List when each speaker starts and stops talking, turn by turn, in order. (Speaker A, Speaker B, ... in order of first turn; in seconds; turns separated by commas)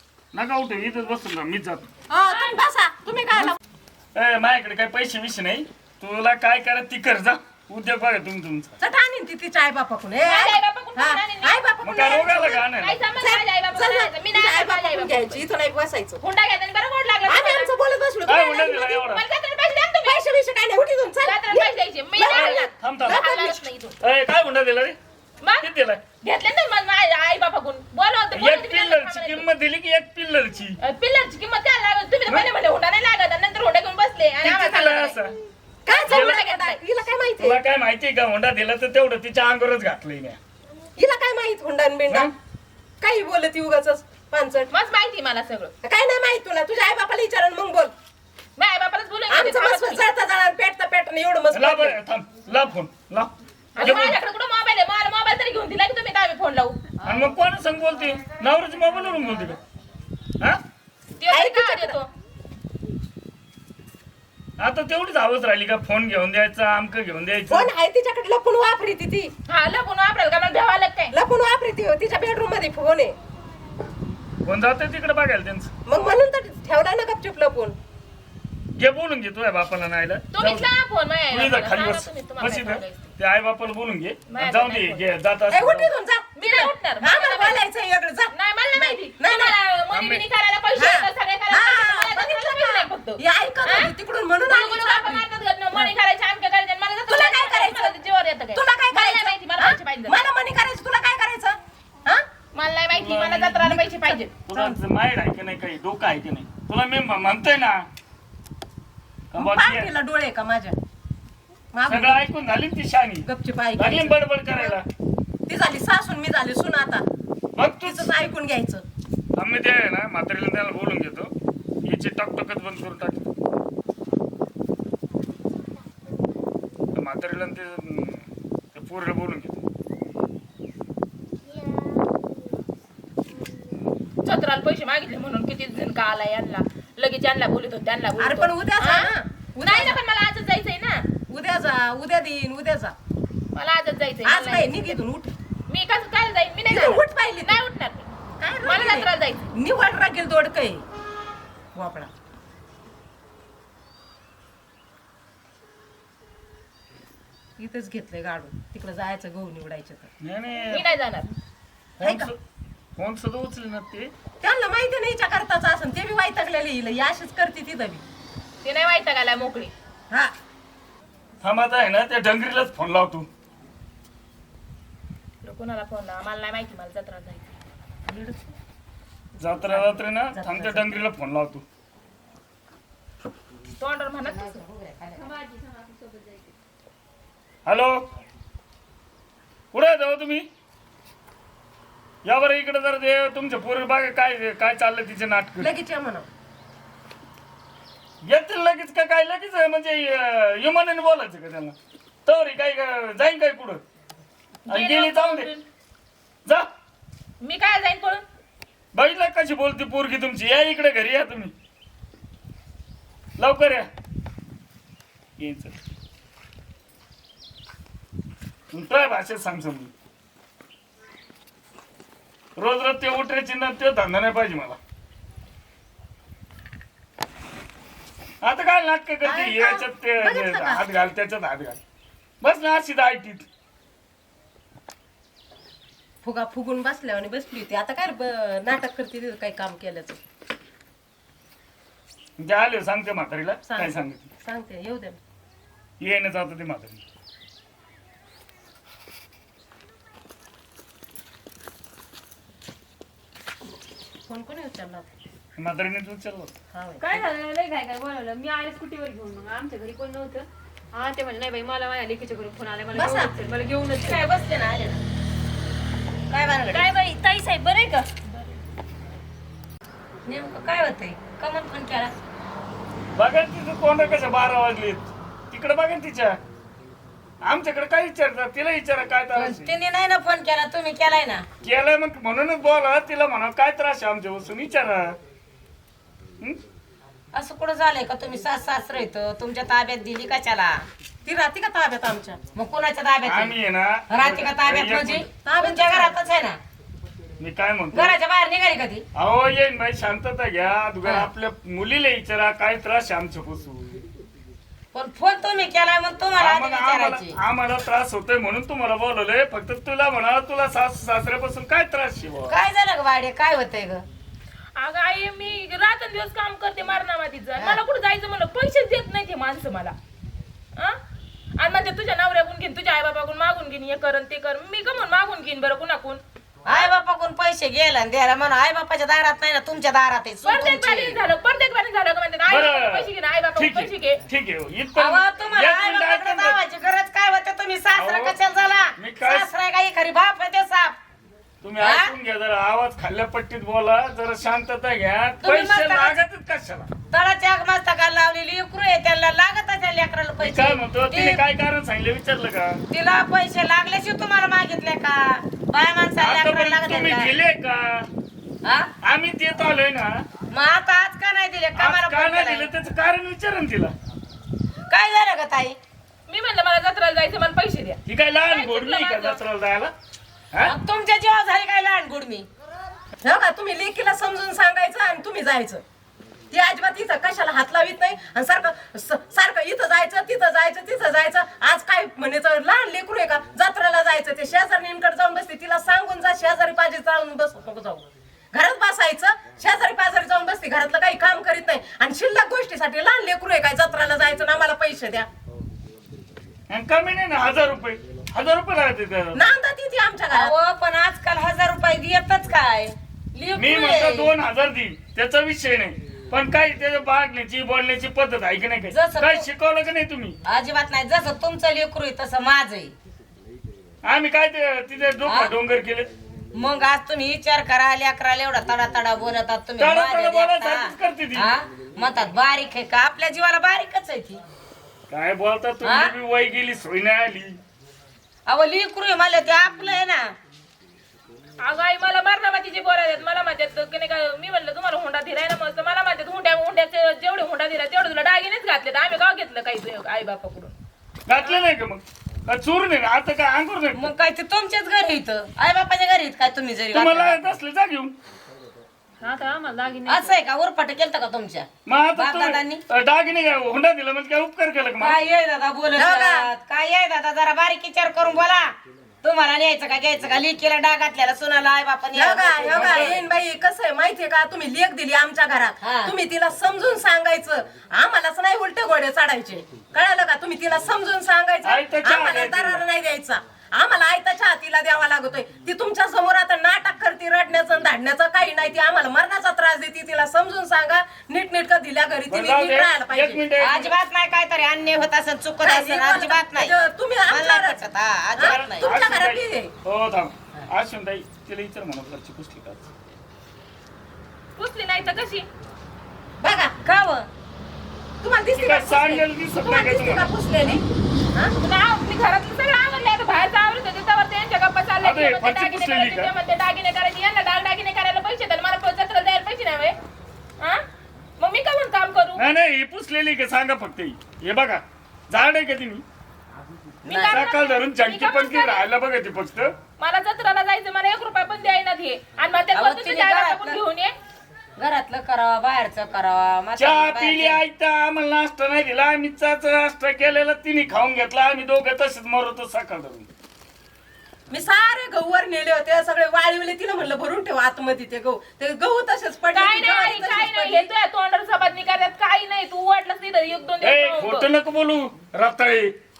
Speaker A: 0.3-1.9, Speaker B: 2.1-3.6, Speaker C: 2.3-2.6, Speaker A: 4.2-8.8, Speaker B: 8.8-12.6, Speaker C: 10.2-11.6, Speaker A: 11.8-13.0, Speaker C: 12.8-15.4, Speaker B: 13.2-16.2, Speaker C: 16.2-17.7, Speaker B: 17.3-19.0, Speaker A: 18.3-19.2, Speaker C: 18.9-20.2, Speaker B: 20.1-23.6, Speaker C: 21.2-24.0, Speaker A: 22.3-23.3, Speaker A: 24.0-25.0, Speaker C: 25.4-25.7, Speaker A: 25.6-26.0, Speaker C: 26.2-29.5, Speaker A: 28.4-30.8, Speaker C: 30.8-35.2, Speaker A: 34.4-35.3, Speaker B: 35.9-37.6, Speaker C: 35.9-36.8, Speaker A: 36.1-36.4, Speaker A: 37.4-40.4, Speaker B: 41.0-42.3, Speaker A: 42.1-42.3, Speaker B: 43.0-44.7, Speaker C: 44.7-45.7, Speaker B: 45.8-47.9, Speaker C: 48.6-50.0, Speaker B: 49.3-52.0, Speaker A: 51.5-54.2, Speaker C: 53.8-56.8, Speaker A: 57.0-59.6, Speaker C: 61.2-62.1, Speaker B: 61.3-62.0, Speaker A: 64.6-67.7, Speaker B: 67.5-69.3, Speaker C: 69.5-71.2, Speaker B: 71.1-73.2, Speaker A: 74.5-75.7, Speaker B: 75.9-77.8, Speaker A: 78.8-80.7, Speaker C: 80.3-83.1, Speaker A: 81.3-85.9, Speaker C: 84.3-85.0, Speaker B: 85.5-89.6, Speaker C: 86.4-87.6, Speaker C: 88.3-93.9, Speaker A: 89.9-90.2, Speaker B: 90.8-95.9, Speaker C: 94.4-100.2, Speaker B: 97.1-98.0, Speaker B: 98.5-102.3, Speaker C: 102.5-104.3, Speaker A: 102.9-107.8, Speaker B: 104.5-104.8, Speaker A: 109.3-109.9, Speaker B: 109.4-110.8, Speaker B: 111.7-112.2, Speaker A: 111.9-114.9, Speaker B: 113.2-114.8, Speaker B: 115.5-117.0, Speaker A: 117.6-118.1, Speaker B: 117.8-118.8, Speaker A: 119.4-121.3, Speaker A: 121.8-123.3, Speaker A: 126.9-129.6, Speaker C: 134.2-139.1, Speaker B: 138.2-140.0, Speaker C: 139.6-141.0, Speaker B: 141.3-142.9, Speaker C: 143.6-145.0, Speaker B: 144.2-145.3, Speaker C: 145.7-148.1, Speaker B: 146.7-147.6, Speaker B: 148.4-150.8, Speaker C: 148.6-149.4, Speaker B: 151.8-152.1, Speaker B: 157.6-160.1, Speaker A: 160.2-160.8, Speaker C: 160.7-161.3, Speaker A: 162.0-162.4, Speaker B: 162.0-162.3, Speaker A: 163.0-164.1, Speaker B: 164.4-168.0, Speaker C: 168.6-169.7, Speaker A: 171.4-173.3, Speaker C: 175.4-177.6, Speaker B: 178.1-178.5, Speaker A: 179.4-181.6, Speaker B: 179.7-181.0, Speaker C: 183.8-184.6, Speaker D: 184.2-185.4, Speaker E: 185.2-186.5, Speaker A: 187.7-188.1, Speaker A: 189.7-190.5, Speaker A: 192.2-195.7, Speaker B: 195.6-196.3, Speaker A: 198.2-203.8, Speaker C: 204.7-205.6, Speaker A: 204.7-205.5, Speaker C: 207.4-208.2, Speaker A: 208.9-211.5, Speaker A: 213.4-213.9, Speaker A: 215.4-215.8, Speaker A: 218.7-219.9, Speaker A: 222.6-224.8, Speaker A: 228.4-231.8, Speaker B: 229.2-230.8, Speaker A: 232.4-233.5, Speaker B: 236.2-240.2, Speaker A: 242.4-244.3, Speaker B: 243.7-245.2, Speaker A: 246.0-247.0, Speaker B: 254.3-255.1, Speaker A: 255.6-256.5, Speaker B: 256.7-257.3, Speaker E: 257.0-264.4, Speaker B: 262.9-263.3, Speaker D: 264.0-265.0, Speaker D: 266.3-266.9, Speaker E: 266.7-268.2, Speaker D: 270.3-272.2, Speaker A: 273.1-276.4, Speaker A: 277.4-279.7, Speaker D: 279.4-281.5, Speaker A: 281.6-285.2, Speaker D: 287.3-290.8, Speaker B: 291.2-292.4, Speaker D: 292.6-293.6, Speaker A: 293.2-295.3, Speaker D: 294.1-296.6, Speaker B: 295.4-296.1, Speaker A: 297.4-298.1, Speaker D: 297.9-299.1, Speaker A: 299.1-304.0, Speaker D: 304.9-307.4, Speaker A: 306.4-312.6, Speaker D: 312.5-314.1, Speaker C: 314.8-320.0, Speaker C: 321.6-326.2, Speaker D: 326.6-331.2, Speaker C: 330.4-334.2, Speaker A: 332.5-336.6, Speaker D: 334.9-341.0, Speaker A: 337.9-338.4, Speaker A: 339.0-339.5, Speaker A: 341.6-346.9, Speaker D: 341.8-342.1, Speaker D: 345.4-346.2, Speaker D: 347.1-351.4, Speaker A: 350.4-352.8, Speaker D: 352.9-357.3, Speaker A: 356.2-358.1, Speaker D: 358.6-358.9, Speaker A: 359.0-360.2, Speaker D: 360.5-362.7, Speaker A: 361.8-363.9, Speaker D: 364.9-365.8, Speaker C: 366.3-369.4, Speaker A: 368.1-369.9, Speaker D: 370.6-372.5, Speaker B: 373.2-375.8, Speaker B: 376.5-395.3, Speaker A: 396.7-399.5, Speaker B: 399.3-400.5, Speaker D: 400.3-404.3, Speaker A: 403.6-410.4, Speaker D: 408.9-409.5, Speaker D: 410.4-412.9, Speaker A: 414.0-416.1, Speaker D: 415.3-415.5, Speaker D: 416.5-424.4, Speaker A: 419.8-421.5, Speaker A: 425.1-427.6, Speaker D: 425.8-426.1, Speaker D: 428.5-430.4, Speaker C: 431.6-440.7, Speaker A: 441.3-444.1, Speaker D: 443.9-447.4, Speaker A: 446.9-448.1, Speaker E: 449.2-450.4, Speaker D: 450.1-452.8, Speaker A: 451.9-455.2, Speaker D: 455.0-463.2, Speaker B: 456.0-456.5, Speaker B: 462.1-483.4, Speaker A: 462.7-463.2, Speaker D: 465.8-466.1, Speaker A: 471.6-472.8, Speaker A: 482.3-483.9, Speaker D: 483.6-486.7, Speaker B: 485.6-487.8, Speaker D: 487.3-488.9, Speaker B: 488.4-489.7, Speaker A: 488.4-492.9, Speaker C: 494.6-495.5, Speaker B: 496.4-496.8, Speaker D: 496.8-497.3, Speaker B: 498.2-501.5, Speaker A: 498.5-500.3, Speaker C: 501.6-510.0, Speaker A: 505.0-506.3, Speaker C: 510.6-510.9, Speaker C: 511.4-512.4, Speaker A: 512.4-516.0, Speaker C: 517.1-518.9, Speaker D: 517.1-517.4, Speaker A: 517.2-519.7, Speaker C: 520.0-524.2, Speaker D: 522.7-523.8, Speaker D: 524.8-527.6, Speaker A: 526.8-533.3, Speaker B: 534.5-540.9, Speaker C: 539.5-544.5, Speaker A: 543.8-545.9